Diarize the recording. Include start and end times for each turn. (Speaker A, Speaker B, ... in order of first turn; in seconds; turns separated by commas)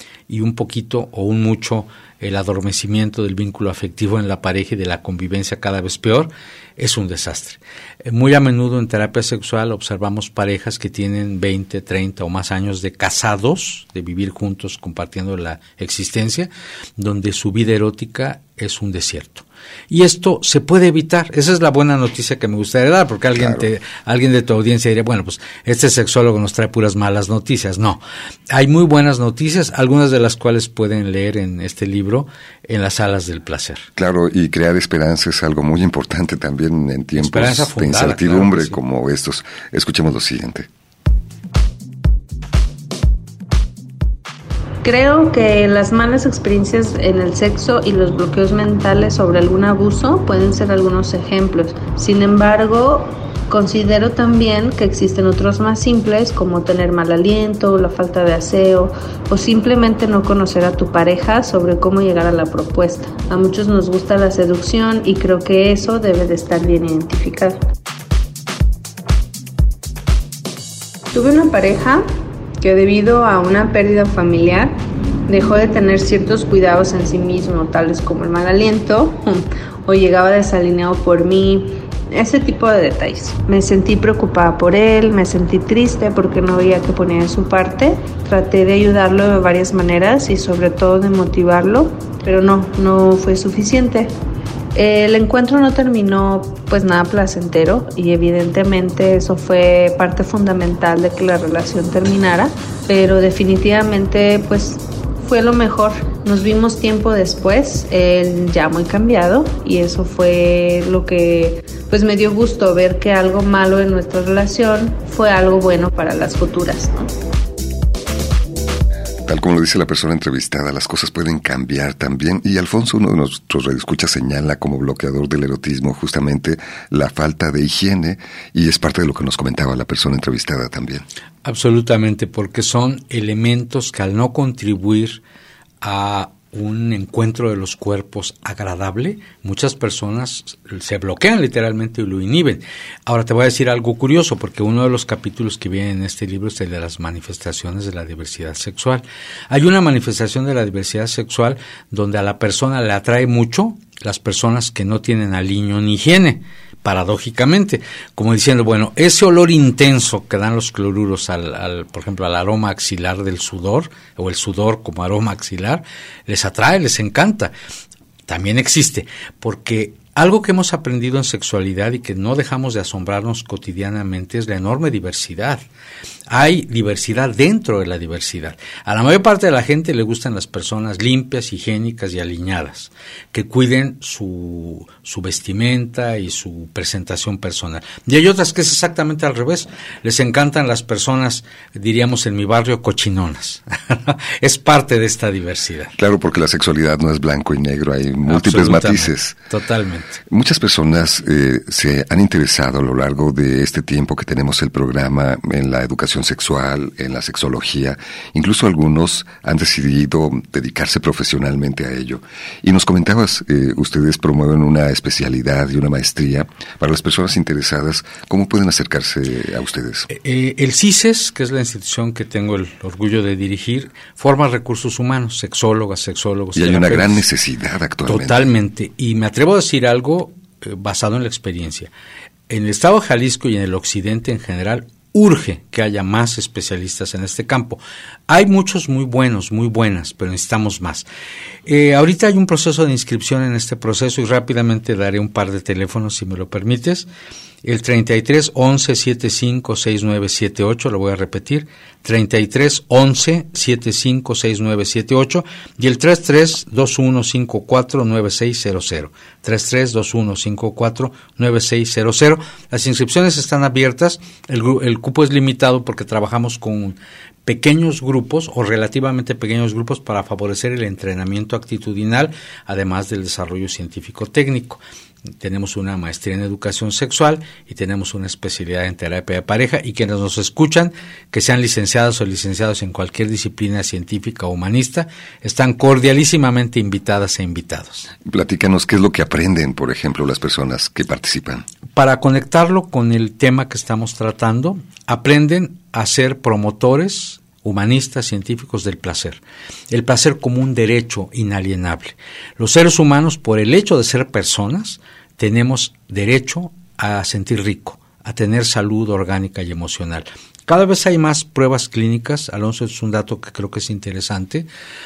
Speaker A: 0.3-33.9, Speaker B: 23.4-23.6, Speaker B: 34.0-40.7, Speaker A: 37.1-38.8, Speaker C: 44.8-67.6, Speaker C: 71.1-72.0, Speaker C: 72.6-94.1, Speaker C: 94.7-117.0, Speaker B: 119.2-131.0, Speaker A: 131.4-135.2, Speaker A: 135.8-167.5, Speaker A: 168.3-175.6, Speaker A: 176.3-195.9, Speaker B: 196.0-199.4, Speaker A: 198.3-200.2, Speaker B: 200.3-220.1, Speaker A: 220.1-227.2, Speaker B: 226.6-228.4, Speaker A: 228.0-231.9, Speaker A: 232.5-241.1, Speaker A: 241.7-247.1, Speaker A: 247.6-274.8, Speaker A: 275.4-288.1, Speaker B: 288.2-291.6, Speaker A: 291.9-314.7